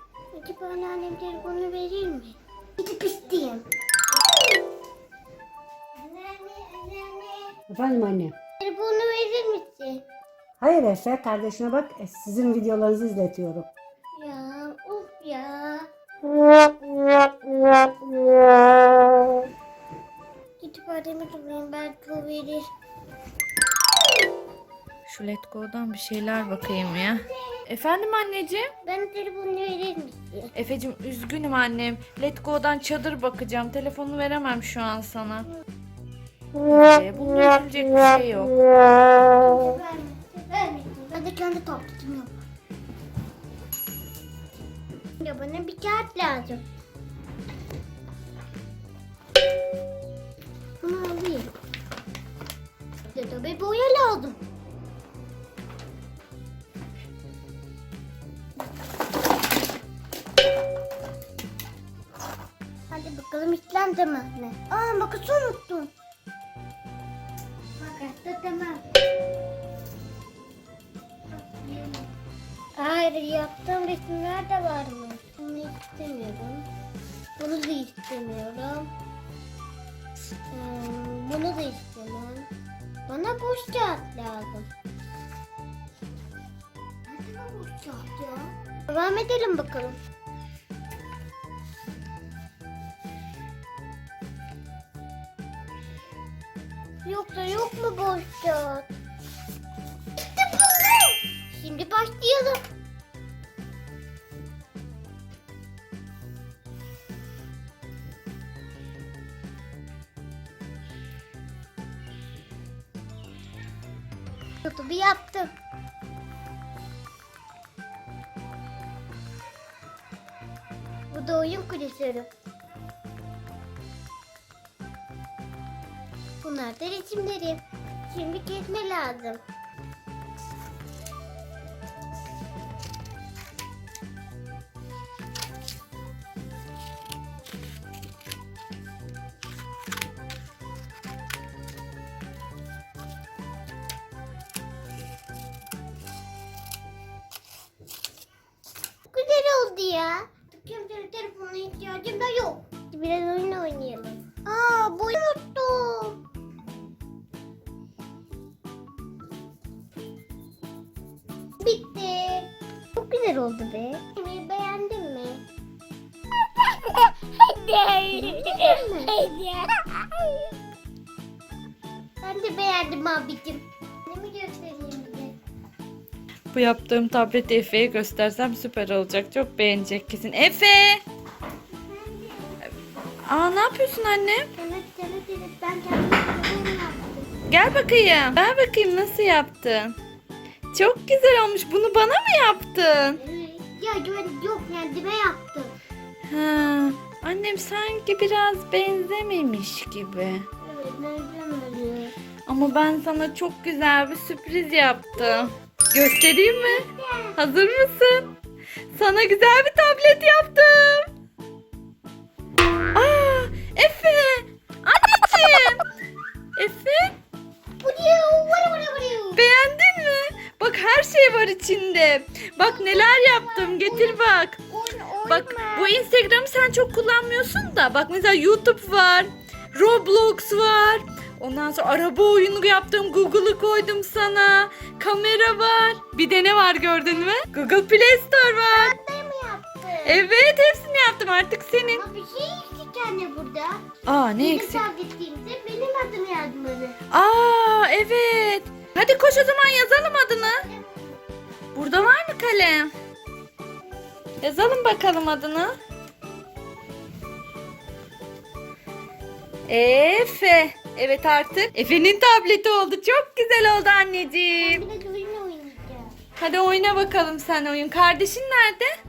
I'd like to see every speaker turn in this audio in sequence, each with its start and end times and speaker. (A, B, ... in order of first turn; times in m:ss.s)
0:00.3-0:03.6 A
0:06.0-0:07.5 A
0:07.7-0:08.3 B
0:08.6-0:10.0 A
0:10.6-0:13.7 B
0:14.1-0:15.9 A
0:20.6-0:22.7 A
0:25.1-0:28.7 C
0:26.6-0:27.6 A
0:28.8-0:30.5 A
0:30.5-0:35.5 C
0:36.6-0:38.6 C
0:39.2-0:42.4 A
0:45.2-0:46.6 A
0:50.8-0:51.5 A
0:53.1-0:54.4 A
1:02.9-1:05.9 A
1:07.8-1:08.8 A
1:11.4-1:12.1 A
1:12.8-1:16.6 A
1:17.4-1:18.9 A
1:20.5-1:22.5 A
1:23.1-1:24.7 A
1:27.1-1:30.0 A
1:37.0-1:38.9 A
1:40.3-1:42.6 A
1:54.6-1:55.5 A
2:01.1-2:02.3 A
2:06.4-2:09.4 A
2:29.1-2:36.2 A
2:41.6-2:45.4 A
2:46.9-2:49.9 A
2:52.2-2:55.3 A
2:56.5-3:01.0 C
3:01.7-3:02.6 A
3:03.2-3:04.5 C
3:04.5-3:07.3 A
3:07.5-3:09.9 C
3:10.7-3:13.2 C
3:13.2-3:15.7 A
3:16.3-3:20.5 C
3:20.6-3:22.1 A
3:22.4-3:28.3 C
3:25.2-3:25.5 A
3:26.5-3:27.4 A
3:28.9-3:31.1 C
3:32.9-3:35.8 C
3:36.6-3:37.1 C
3:37.8-3:39.4 A
3:39.4-3:44.6 C
3:42.6-3:46.0 A
3:45.3-3:58.9 C
3:58.7-4:00.2 A
4:00.0-4:02.0 C
4:01.8-4:07.0 A
4:04.0-4:04.8 C
4:07.1-4:10.6 C
4:10.6-4:11.2 A
4:11.7-4:12.9 C
4:14.4-4:15.7 C
4:19.7-4:24.8 C
4:24.6-4:26.1 A
4:26.4-4:28.9 C